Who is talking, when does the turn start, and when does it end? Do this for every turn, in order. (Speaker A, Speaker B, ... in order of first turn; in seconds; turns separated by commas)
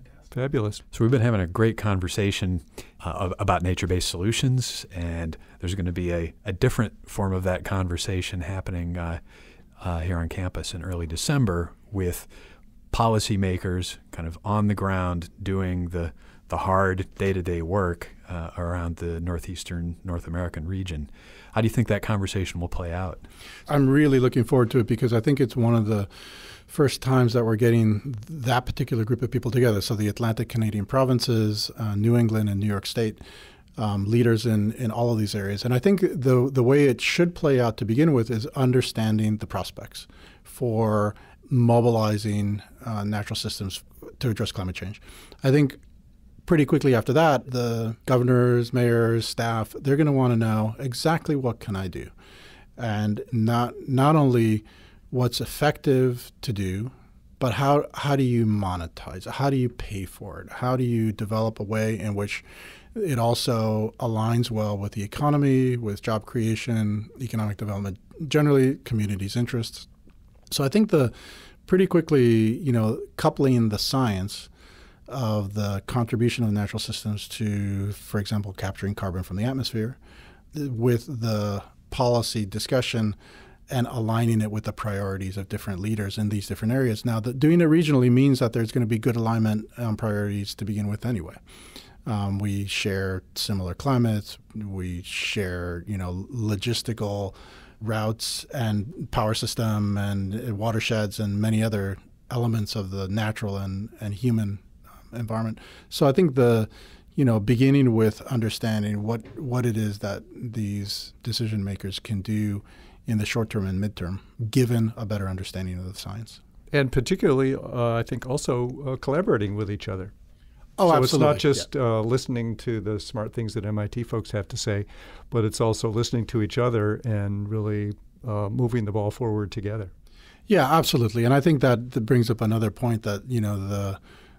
Speaker A: 0.3-0.8, Speaker B: 0.9-9.2, Speaker B: 9.8-12.3, Speaker B: 12.9-23.2, Speaker C: 23.7-26.1, Speaker C: 26.7-33.2, Speaker C: 33.8-45.8, Speaker C: 46.5-52.1, Speaker C: 52.8-69.9, Speaker C: 70.5-71.1, Speaker C: 71.7-74.5, Speaker C: 75.1-80.0, Speaker C: 80.5-83.2, Speaker C: 83.7-91.4, Speaker C: 92.0-116.4, Speaker A: 116.7-120.1, Speaker C: 120.8-121.6, Speaker A: 120.9-129.9, Speaker C: 130.5-134.0